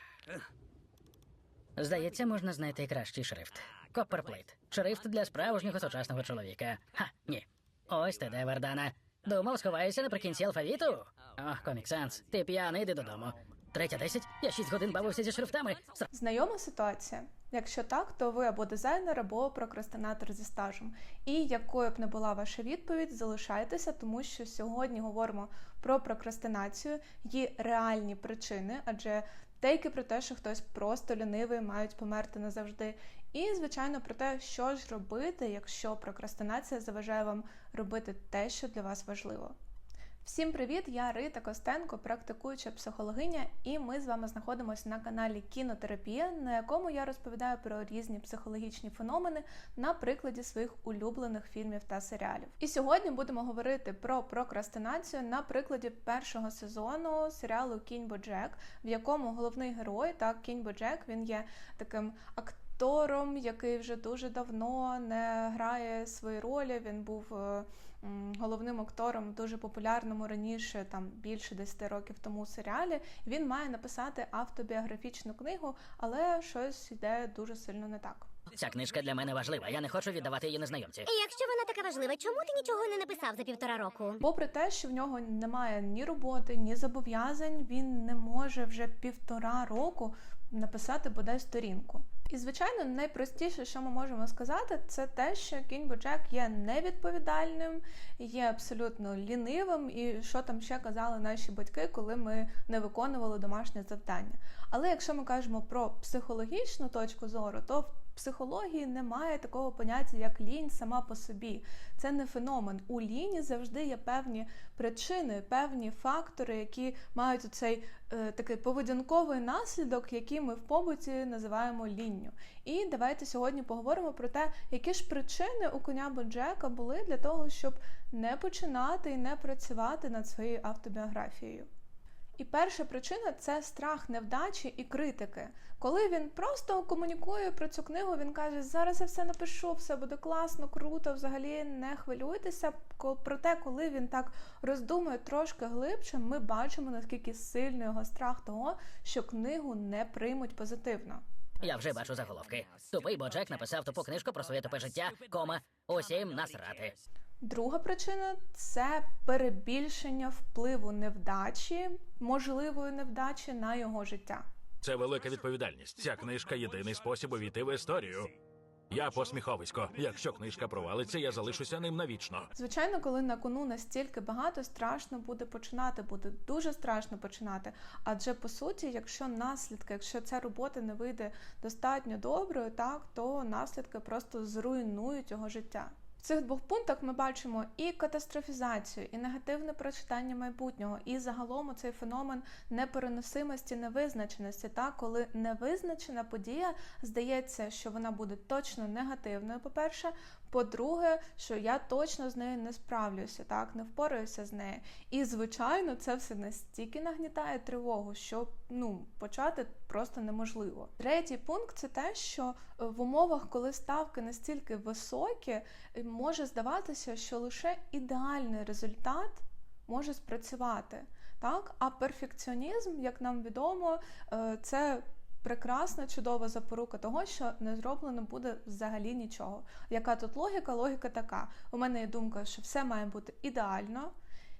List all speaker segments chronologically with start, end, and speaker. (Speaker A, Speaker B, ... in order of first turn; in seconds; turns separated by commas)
Speaker A: 1.8-16.1, Speaker B: 16.1-39.5, Speaker B: 40.2-78.3, Speaker A: 78.5-81.1, Speaker C: 81.1-84.2, Speaker B: 84.2-131.7, Speaker B: 132.4-151.2, Speaker A: 151.6-156.9, Speaker B: 157.4-164.4, Speaker D: 164.8-168.3, Speaker D: 168.9-172.5, Speaker B: 172.6-234.1